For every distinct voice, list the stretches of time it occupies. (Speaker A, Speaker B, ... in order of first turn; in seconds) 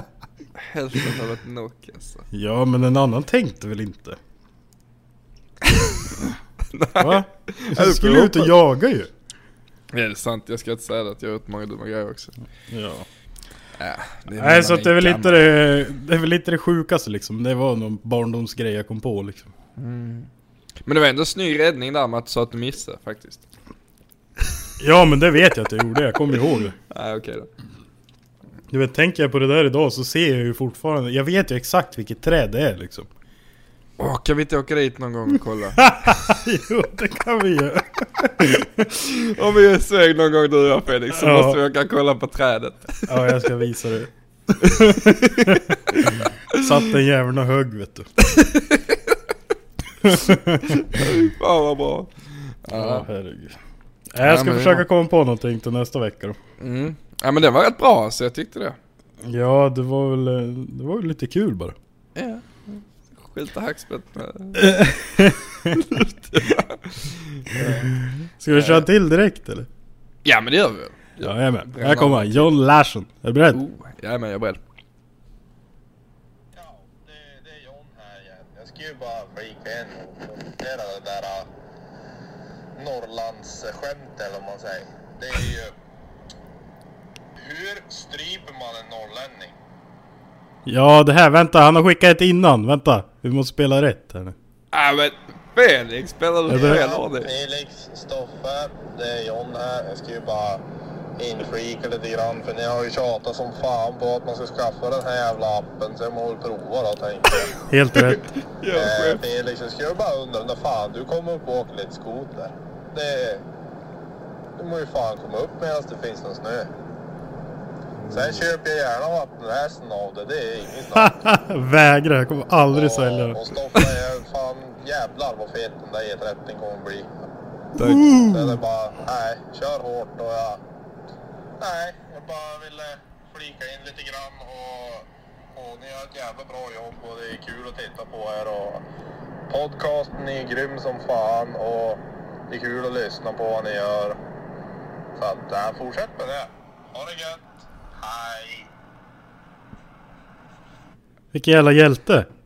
Speaker A: 0.6-2.2, 5.7-6.0, 6.7-8.5, 9.9-12.3, 13.8-15.5, 19.8-20.3, 20.9-23.4, 26.9-27.5, 34.0-35.9, 39.0-43.0, 44.6-45.6, 48.3-49.1, 50.7-53.1, 54.2-54.9, 56.6-58.8, 62.1-65.0, 65.7-68.0, 68.5-68.9, 70.2-72.5, 73.5-74.6, 94.7-97.3, 108.0-109.2, 118.0-118.5, 127.8-128.3
Speaker B: 2.3-4.2, 7.0-9.1, 12.7-13.1, 14.4-19.5, 24.8-26.8, 28.7-33.1, 35.8-38.9, 41.1-41.6, 43.1-44.1, 44.6-48.1, 50.0-50.8, 52.7-53.6, 54.1-56.4, 59.2-61.8, 64.5-65.8, 67.6-69.7, 71.2-73.6, 90.7-94.3, 96.5-96.8, 107.7-108.2, 120.9-123.4, 127.8-128.5, 151.3-152.3
Speaker C: 76.5-81.5, 82.8-85.7, 87.4-89.5, 96.5-100.6, 101.2-107.5, 108.7-113.4, 114.6-116.7, 118.1-121.2, 122.7-127.1, 128.3-130.6, 131.6-138.8, 139.5-144.2, 145.2-147.4, 148.0-148.7